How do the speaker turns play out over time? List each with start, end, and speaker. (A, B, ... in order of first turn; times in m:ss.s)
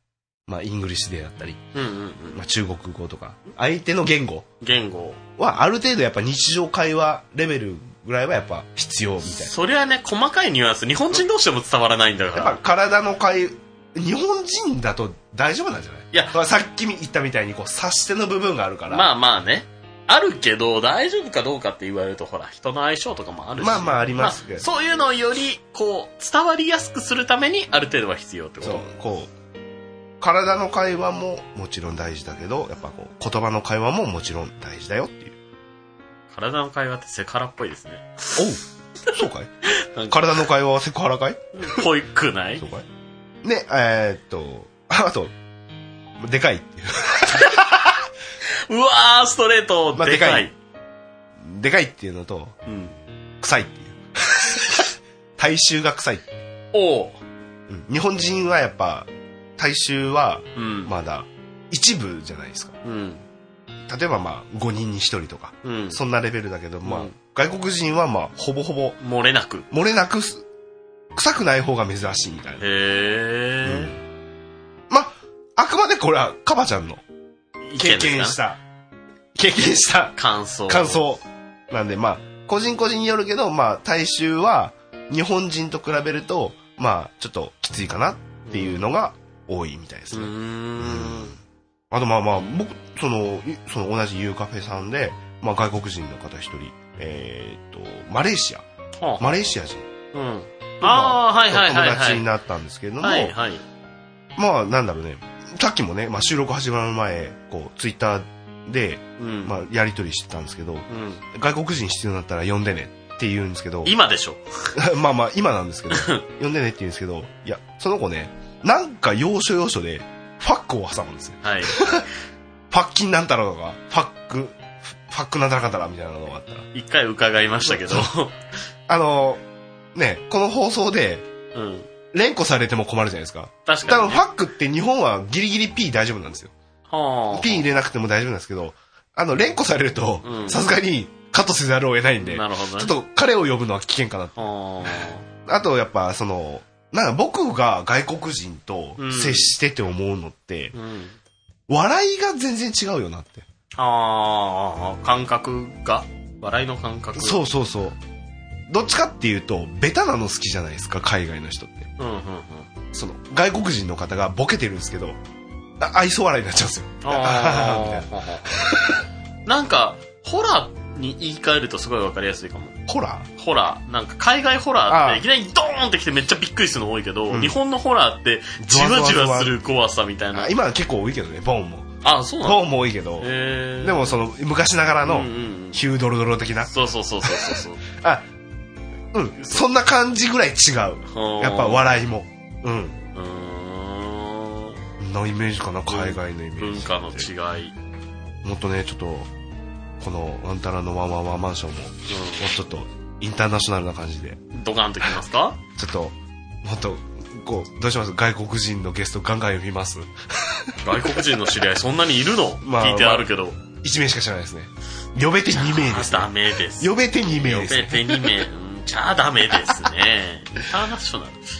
0:00.5-0:01.6 A
0:01.7-0:02.4 B
0:02.3-0:04.5 A
0:04.6-0:05.2 B
0:05.4-0:09.5 A
0:09.3-0:12.6 B
0:12.3-0:19.1 A
0:18.9-0:28.8 B
0:23.6-0:24.6 A
0:28.6-0:29.3 A
0:30.2-0:35.3 A
0:36.3-0:38.4 B
0:38.4-0:38.6 A
0:39.1-0:39.5 A
0:39.7-0:40.4 B
0:40.0-0:41.8 A
0:41.6-0:42.6 B
0:42.6-0:42.8 A
0:43.4-0:45.3 A
0:46.2-0:47.7 A
0:48.7-0:50.5 B
0:49.9-0:50.5 A
0:51.4-0:52.5 A
0:52.6-0:52.9 B
0:53.4-0:56.3 A
0:56.7-0:57.2 B
0:57.7-1:02.7 A
1:00.6-1:00.9 B
1:02.8-1:03.2 B
1:03.9-1:09.0 A
1:05.6-1:06.0 B
1:06.8-1:07.1 B
1:09.0-1:09.7 B
1:09.7-1:10.4 A
1:11.1-1:12.6 A
1:12.6-1:13.9 B
1:13.6-1:14.0 A
1:14.9-1:17.0 A
1:17.6-1:18.4 B
1:17.8-1:18.6 A
1:19.4-1:20.2 A
1:20.2-1:21.0 B
1:20.7-1:31.4 A
1:28.4-1:28.8 B
1:30.1-1:31.3 B
1:31.9-1:38.6 A
1:39.0-1:39.4 B
1:39.2-1:39.8 A
1:40.1-1:42.2 B
1:40.8-1:43.3 A
1:43.0-1:43.6 B
1:44.4-1:54.0 A
1:49.2-1:49.5 B
1:50.9-1:51.2 B
1:53.8-1:54.4 B
1:54.7-2:02.1 A
1:55.9-1:56.2 B
2:01.4-2:02.0 B
2:02.7-2:06.7 A
2:06.7-2:08.4 B
2:07.6-2:08.1 A
2:08.9-2:09.4 A
2:09.9-2:11.2 A
2:11.5-2:11.9 B
2:12.1-2:16.5 A
2:13.7-2:14.2 B
2:16.9-2:17.6 B
2:17.3-2:24.4 A
2:20.2-2:20.6 B
2:22.2-2:22.9 B
2:24.4-2:25.2 B
2:25.4-2:30.8 A
2:29.0-2:29.5 B
2:30.7-2:31.2 B
2:31.7-2:33.4 A
2:33.7-2:37.4 B
2:37.1-2:38.0 A
2:38.7-2:41.9 A
2:42.0-2:42.7 B
2:42.9-2:45.2 A
2:45.8-2:49.0 A
2:47.0-2:48.6 B
2:49.4-2:52.8 B
2:52.9-2:53.3 A
2:53.4-3:00.5 B
2:54.9-2:55.2 A
2:57.3-2:57.6 A
2:58.6-2:59.5 A
3:00.3-3:01.9 A
3:02.0-3:02.7 B
3:02.4-3:06.7 A
3:03.2-3:04.2 B
3:05.0-3:05.8 B
3:06.7-3:07.8 B
3:07.2-3:08.2 A
3:09.1-3:13.0 A
3:09.4-3:09.6 B
3:11.1-3:12.0 B
3:13.1-3:14.8 B
3:15.0-3:17.3 A
3:15.9-3:17.7 B
3:18.4-3:19.3 A
3:20.0-3:24.4 A
3:22.1-3:22.4 B
3:24.5-3:25.6 B
3:25.8-3:31.2 A
3:30.8-3:33.6 B
3:32.6-3:38.4 A
3:35.5-3:41.4 B